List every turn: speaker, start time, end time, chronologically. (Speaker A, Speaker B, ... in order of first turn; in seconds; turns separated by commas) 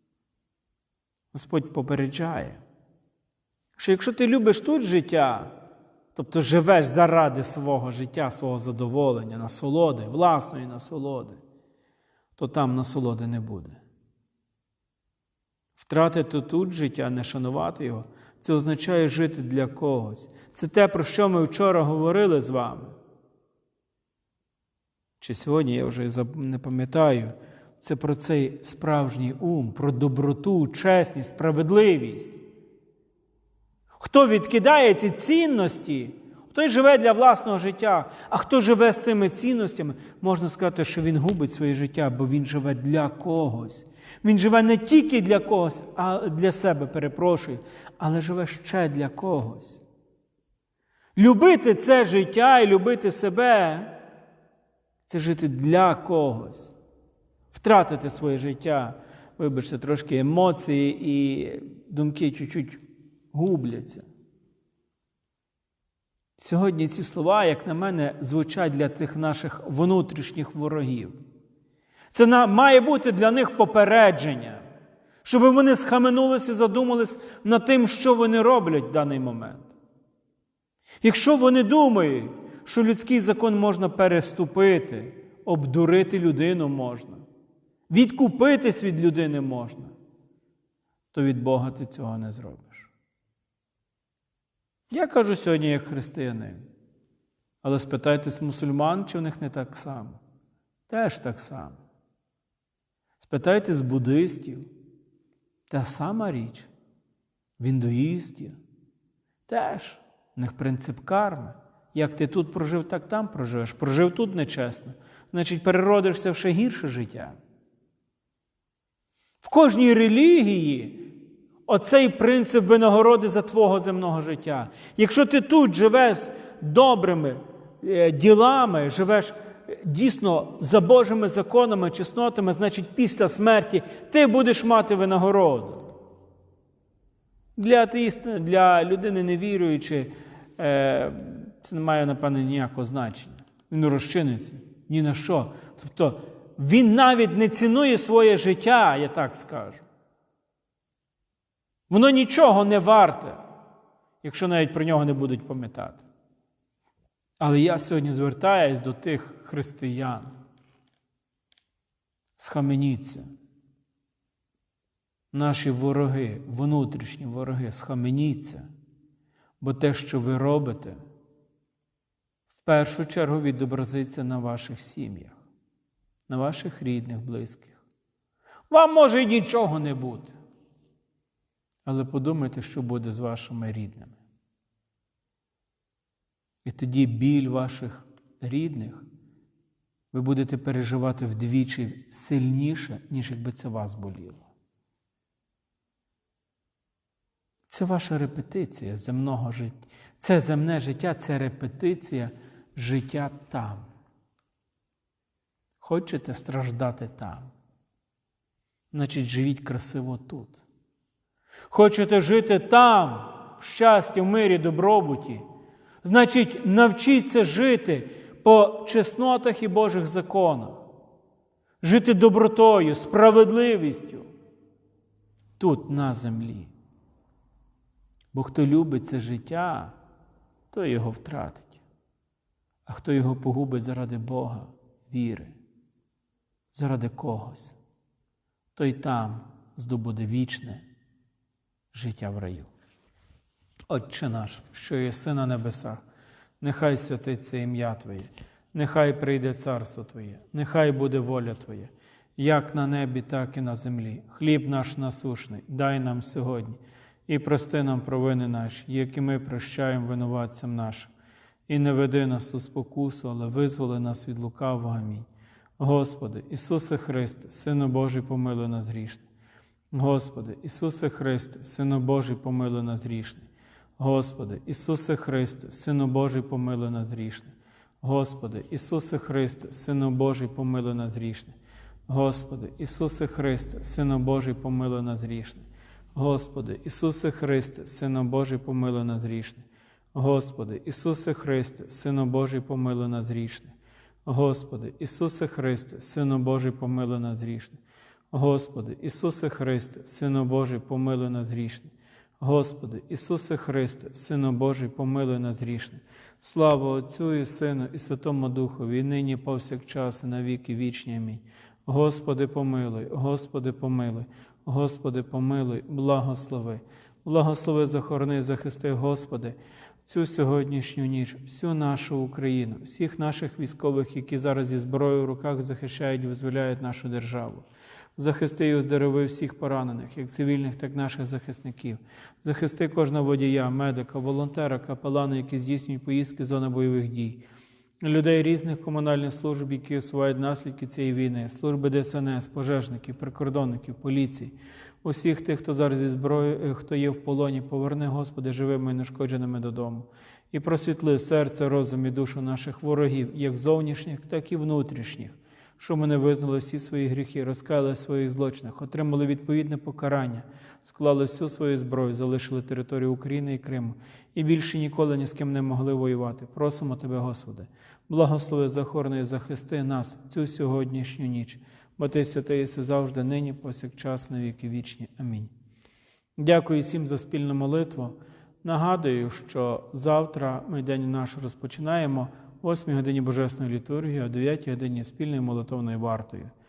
Speaker A: 1.3-2.6, Speaker A: 3.8-5.5, Speaker A: 6.1-11.4, Speaker A: 12.3-13.8, Speaker A: 15.8-23.0, Speaker A: 25.2-32.4, Speaker A: 34.0-49.8, Speaker A: 51.1-53.9, Speaker A: 55.0-56.7, Speaker A: 57.5-64.0, Speaker A: 66.4-71.2, Speaker A: 72.1-74.6, Speaker A: 75.2-79.7, Speaker A: 81.0-87.2, Speaker A: 87.9-89.9, Speaker A: 91.1-92.9, Speaker A: 94.9-96.7, Speaker A: 97.6-100.2, Speaker A: 100.9-101.8, Speaker A: 103.2-104.7, Speaker A: 105.7-106.7, Speaker A: 107.6-108.6, Speaker A: 109.5-117.4, Speaker A: 119.4-121.0, Speaker A: 121.7-135.9, Speaker A: 137.6-149.8, Speaker A: 151.9-153.4, Speaker A: 154.2-156.1, Speaker A: 157.4-160.3, Speaker A: 162.3-163.3, Speaker A: 165.3-168.7, Speaker A: 169.6-171.0, Speaker A: 172.5-175.4, Speaker A: 176.3-177.8, Speaker A: 178.7-180.4, Speaker A: 181.8-184.2, Speaker A: 186.6-189.1, Speaker A: 190.1-194.5, Speaker A: 197.7-203.9, Speaker A: 205.8-207.5, Speaker A: 208.9-210.6, Speaker A: 211.7-215.4, Speaker A: 216.0-220.8, Speaker A: 221.8-224.3, Speaker A: 225.6-226.7, Speaker A: 228.3-230.0, Speaker A: 230.7-231.8, Speaker A: 232.8-235.6, Speaker A: 236.7-237.8, Speaker A: 238.7-240.8, Speaker A: 241.9-242.7, Speaker A: 243.9-246.0, Speaker A: 246.6-261.1, Speaker A: 261.7-269.2, Speaker A: 269.9-281.6, Speaker A: 282.1-293.7, Speaker A: 294.2-297.8, Speaker A: 298.3-337.4, Speaker A: 338.0-375.5, Speaker A: 376.4-386.5